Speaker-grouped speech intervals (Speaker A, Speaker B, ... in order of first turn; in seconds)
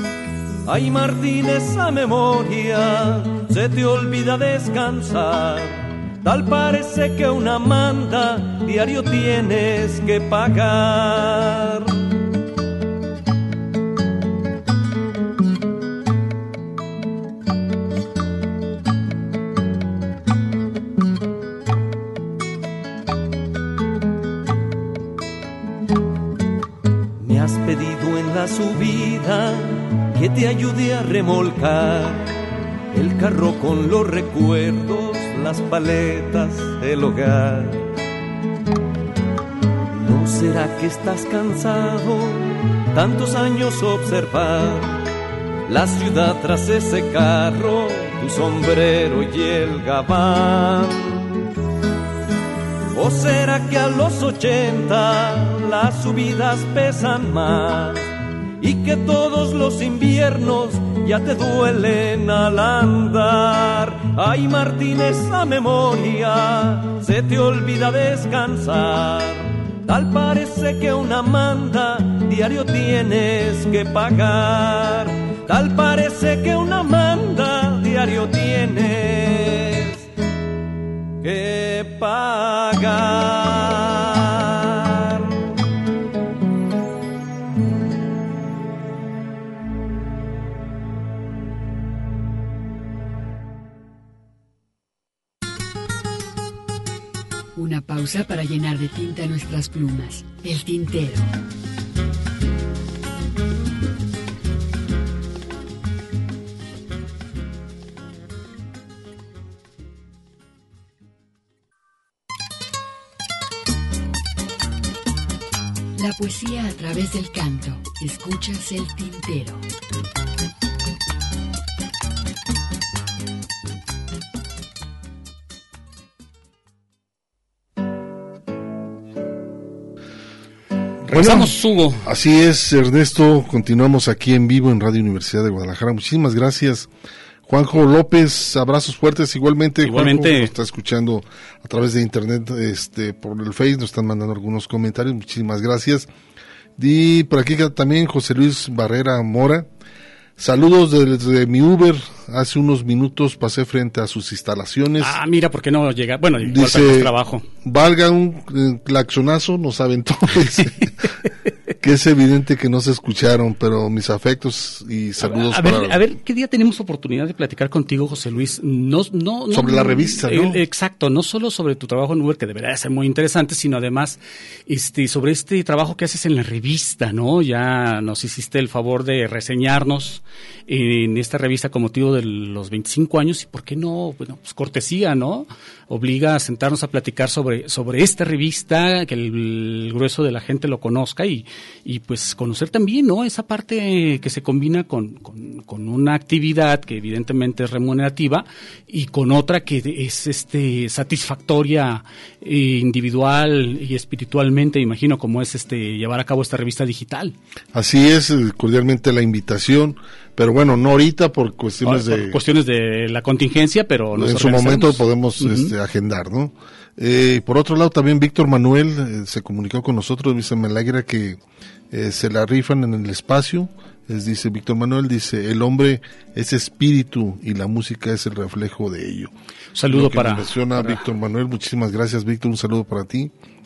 Speaker A: 0.7-11.9, 27.2-32.3, 32.9-37.9, 40.0-45.0, 45.7-51.2, 52.9-58.0, 58.6-80.0, 81.2-85.2
Speaker B: 97.6-101.3, 116.0-119.7
Speaker C: 131.1-132.1, 139.8-140.5, 155.0-157.5, 165.2-207.3, 211.8-215.7, 229.8-231.0
Speaker D: 131.1-136.9, 137.5-146.1, 146.8-149.7, 150.4-155.2, 156.4-160.9, 161.8-166.0, 169.5-170.6, 207.7-212.4, 214.2-221.4, 221.9-229.3, 229.9-233.3